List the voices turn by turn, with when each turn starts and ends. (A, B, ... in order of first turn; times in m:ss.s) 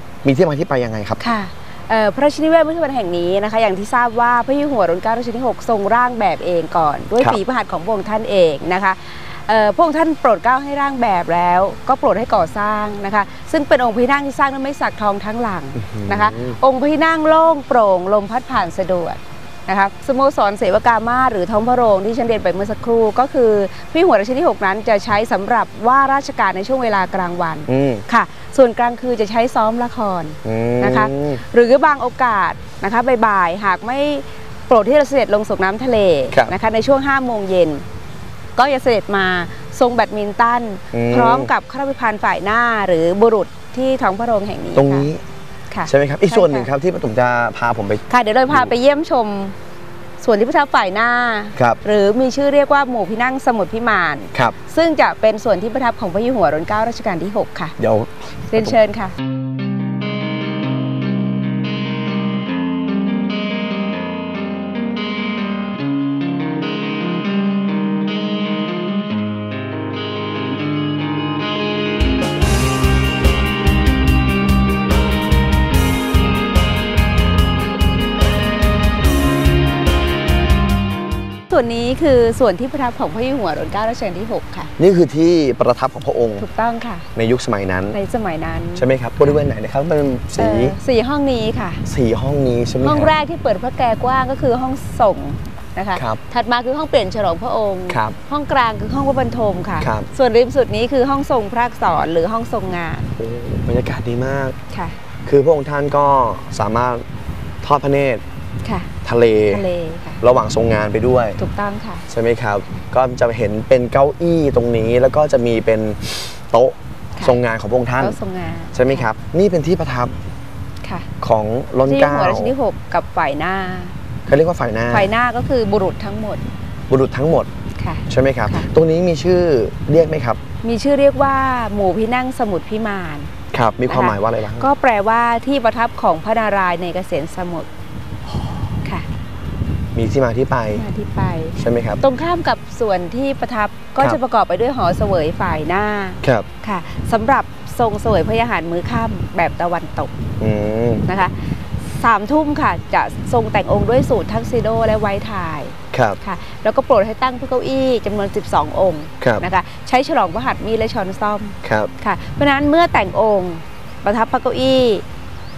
0:00.2-0:01.2 A
0:01.2-0:37.8 B
0:15.8-0:16.6 A
0:27.7-0:28.0 A
0:30.4-0:31.4 A
0:38.6-0:45.1 B
0:40.9-0:41.5 A
0:44.8-0:45.2 A
0:45.7-0:46.7 B
0:45.9-0:48.7 A
0:48.1-0:49.6 B
0:50.2-0:57.8 B
0:57.8-0:58.8 A
0:58.5-0:59.2 B
1:21.5-1:24.7 B
1:24.8-1:26.5 A
1:26.4-1:27.1 B
1:27.2-1:28.0 A
1:27.9-1:29.4 B
1:28.8-1:30.8 A
1:30.4-1:31.8 B
1:31.8-1:33.1 A
1:32.8-1:43.1 B
1:36.0-1:36.2 A
1:37.9-1:38.2 A
1:39.8-1:40.1 A
1:43.2-1:44.6 A
1:44.7-1:45.0 B
1:45.2-1:47.0 A
1:47.6-1:48.2 A
1:48.6-1:48.9 B
1:49.0-1:49.6 A
1:49.5-1:50.2 B
1:50.2-1:51.4 A
1:51.4-1:52.0 B
1:52.1-1:58.2 A
1:58.0-1:59.1 B
1:58.7-2:00.2 A
2:00.8-2:01.1 B
2:01.2-2:02.6 A
2:01.8-2:04.0 B
2:04.3-2:05.1 A
2:04.9-2:06.4 B
2:06.9-2:07.5 A
2:07.8-2:08.7 B
2:08.1-2:10.4 A
2:10.6-2:13.3 B
2:13.5-2:14.7 A
2:13.9-2:17.7 B
2:20.0-2:20.8 A
2:20.7-2:30.1 B
2:21.6-2:22.0 A
2:30.4-2:31.1 A
2:31.1-2:45.0 B
2:35.9-2:36.2 A
2:41.6-2:41.9 A